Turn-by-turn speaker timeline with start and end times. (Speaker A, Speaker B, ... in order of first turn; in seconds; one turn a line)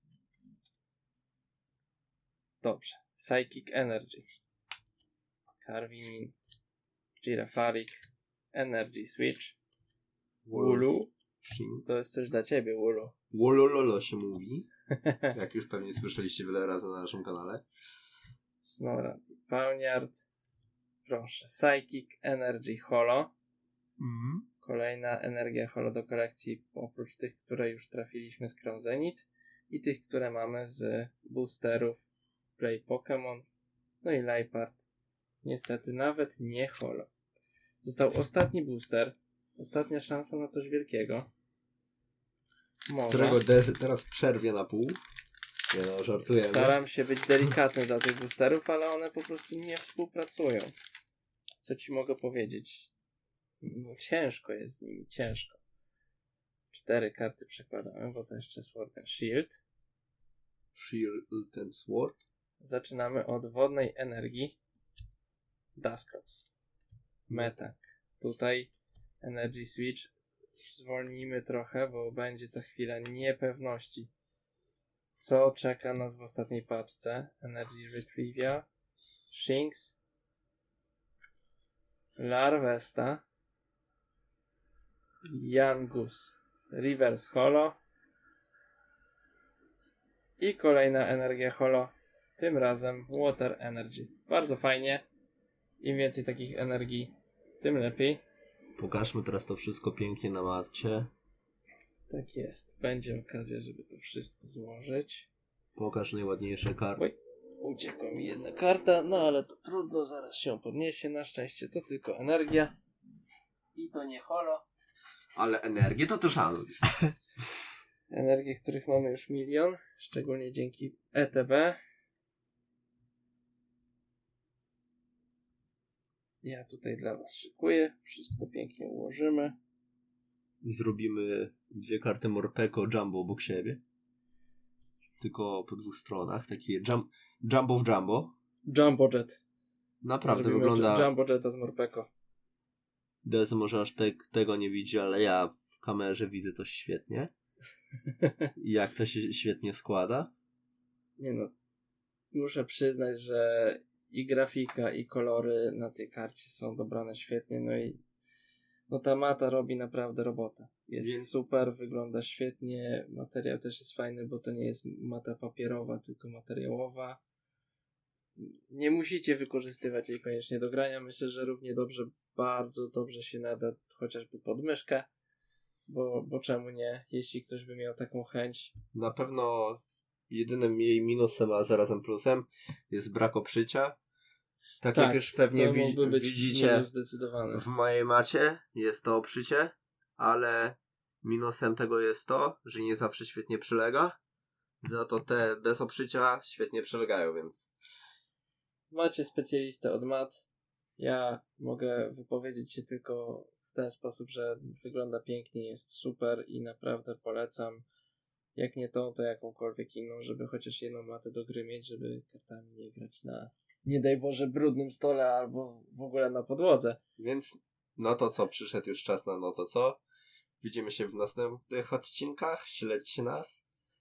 Speaker A: 2.6-4.3
Speaker A: 5.6-6.3
Speaker A: 7.2-9.6
Speaker B: 10.4-10.9
Speaker A: 10.5-11.1
Speaker B: 11.4-11.9
Speaker A: 11.9-13.1
Speaker B: 13.3-14.7
Speaker A: 14.9-15.3
Speaker B: 15.3-17.6
Speaker A: 18.6-20.3
Speaker A: 21.1-23.3
Speaker B: 24.0-24.5
Speaker A: 24.6-32.0
Speaker A: 32.6-33.5
Speaker A: 34.0-34.8
Speaker A: 35.4-37.1
Speaker A: 37.8-41.3
Speaker A: 42.9-43.4
Speaker B: 43.1-45.0
Speaker B: 45.7-46.8
Speaker A: 46.4-50.7
Speaker A: 51.6-52.9
Speaker A: 53.6-55.6
Speaker A: 56.7-59.6
Speaker B: 60.8-62.2
Speaker A: 62.6-64.6
Speaker A: 65.8-66.5
Speaker A: 67.3-74.1
Speaker A: 75.2-78.7
Speaker A: 79.3-80.0
Speaker A: 82.2-83.2
Speaker A: 85.3-87.8
Speaker A: 90.4-95.0
Speaker A: 95.8-98.2
Speaker B: 98.8-101.1
Speaker A: 102.1-105.3
Speaker B: 105.8-107.0
Speaker A: 107.0-112.8
Speaker A: 113.8-114.7
Speaker B: 115.4-117.2
Speaker A: 118.1-121.8
Speaker A: 126.4-129.6
Speaker B: 130.6-133.8
Speaker B: 135.2-138.3
Speaker A: 138.7-139.4
Speaker B: 140.0-141.1
Speaker A: 140.2-142.1
Speaker B: 143.2-147.3
Speaker B: 148.6-150.3
Speaker A: 151.2-151.5
Speaker A: 152.3-158.0
Speaker A: 158.9-167.2
Speaker B: 161.0-161.3
Speaker A: 168.4-175.1
Speaker A: 175.9-178.7
Speaker B: 178.9-184.0
Speaker B: 184.8-186.9
Speaker A: 184.9-187.7
Speaker B: 187.5-194.2
Speaker B: 194.8-197.7
Speaker A: 198.9-200.4
Speaker A: 201.0-207.8
Speaker A: 208.6-217.0
Speaker B: 217.2-220.0
Speaker B: 220.6-223.6